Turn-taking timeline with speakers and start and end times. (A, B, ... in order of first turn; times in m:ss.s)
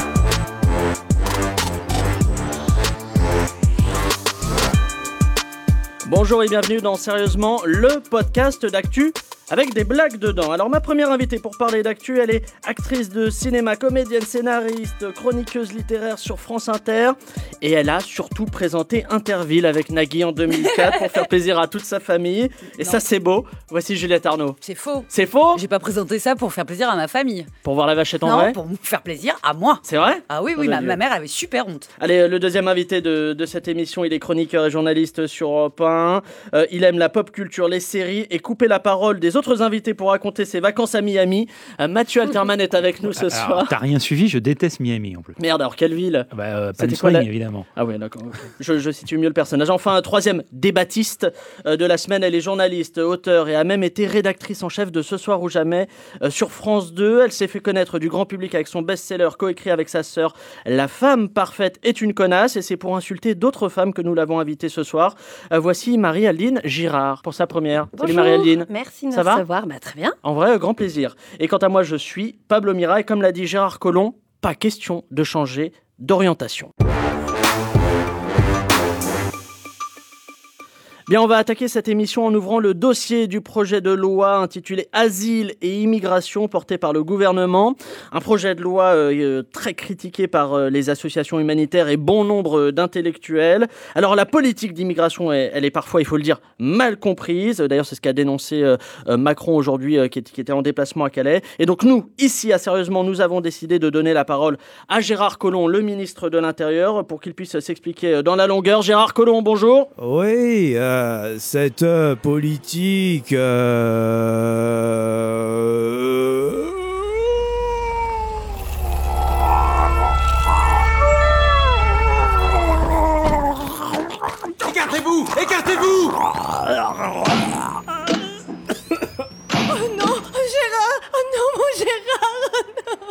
0:06.0-0:24.6 A
0:24.6-0:27.5 B
0:25.1-0:25.6 A
0:27.6-0:28.6 A
0:28.2-0:31.9 B
0:29.9-0:31.0 A
0:32.0-0:43.7 A
0:43.1-0:45.4 C
0:45.4-1:09.4 A
0:46.3-0:47.6 C
1:08.0-1:10.1 D
1:10.2-1:16.7 A
1:21.1-1:49.9 A
1:50.0-1:56.5 E
2:09.9-2:12.2 D